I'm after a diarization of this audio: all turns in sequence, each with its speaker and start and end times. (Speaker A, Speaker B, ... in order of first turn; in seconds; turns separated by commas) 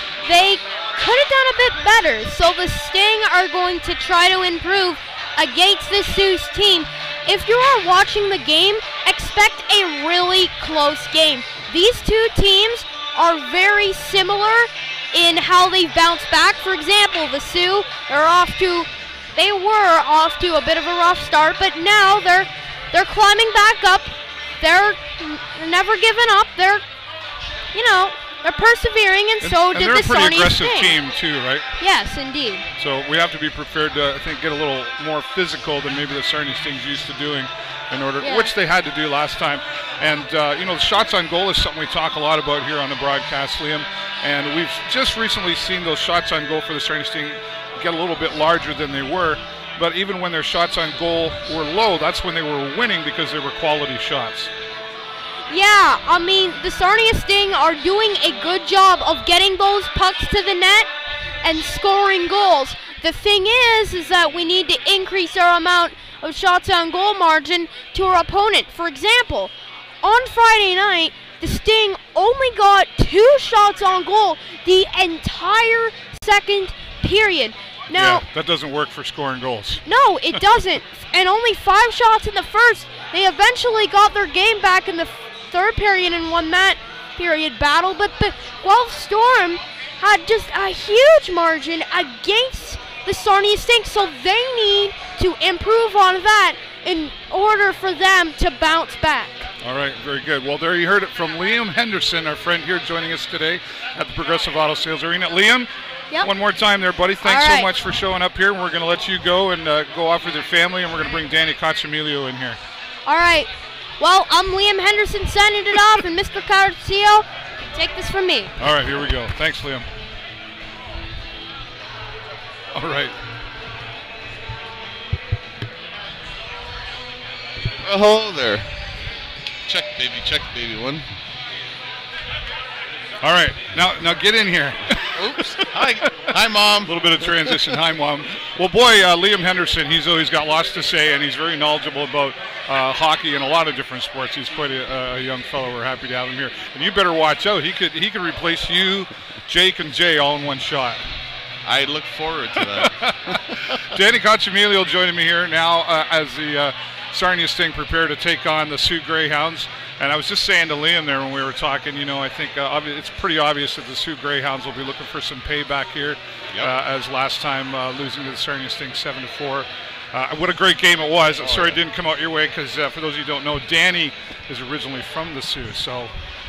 Speaker A: 0.2-26.8, Speaker A: 27.7-31.0, Speaker B: 29.4-31.7, Speaker A: 31.8-32.6, Speaker B: 32.8-54.5, Speaker A: 38.2-38.5, Speaker A: 55.5-60.9, Speaker A: 61.4-78.2, Speaker B: 77.9-79.8, Speaker A: 79.8-99.5, Speaker B: 99.6-105.7, Speaker B: 106.2-112.6, Speaker A: 107.2-107.7, Speaker A: 113.0-118.5, Speaker B: 118.6-119.9, Speaker B: 122.7-123.1, Speaker C: 127.8-128.7, Speaker C: 129.7-131.1, Speaker B: 133.2-135.4, Speaker C: 135.2-137.6, Speaker B: 136.0-136.3, Speaker B: 136.8-151.0, Speaker C: 151.6-153.8, Speaker B: 152.7-176.1, Speaker C: 171.4-171.8